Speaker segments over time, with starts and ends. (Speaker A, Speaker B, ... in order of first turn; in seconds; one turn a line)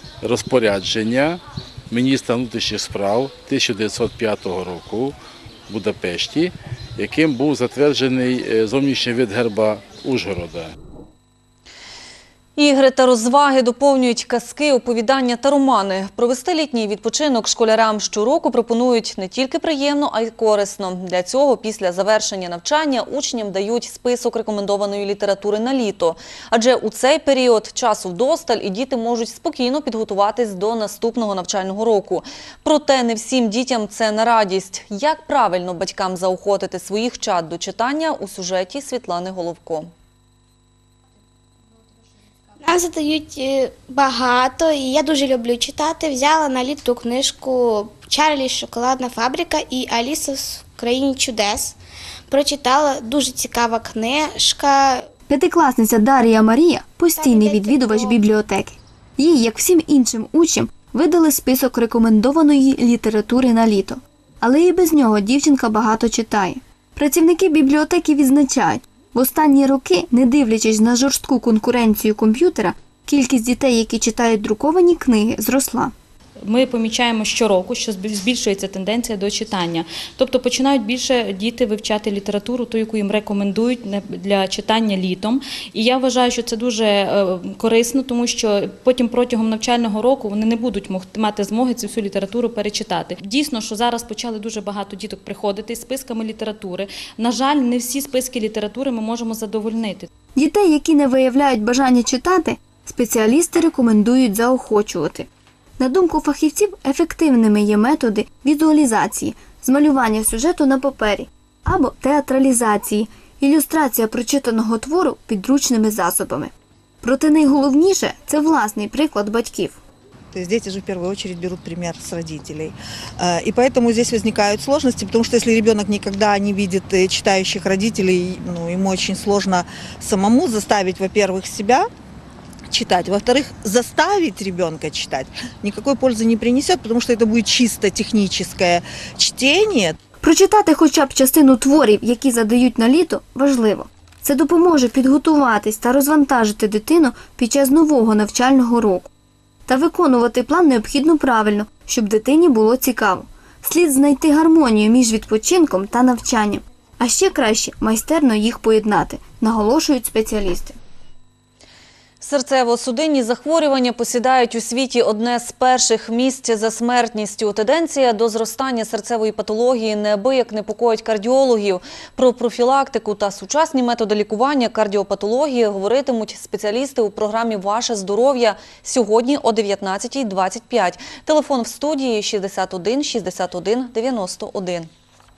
Speaker A: 0.2-5.2
Speaker A: 5.7-10.7
Speaker B: 12.6-39.9
Speaker C: 42.6-51.8
Speaker C: 52.3-55.1
Speaker D: 55.3-75.9
Speaker C: 57.1-58.2
Speaker E: 76.4-100.1
Speaker D: 100.3-105.3
Speaker D: 105.8-116.5
Speaker D: 117.0-119.8
Speaker F: 120.3-131.9
Speaker F: 132.7-139.9
Speaker D: 140.2-149.1
Speaker D: 149.7-160.8
Speaker B: 162.2-184.9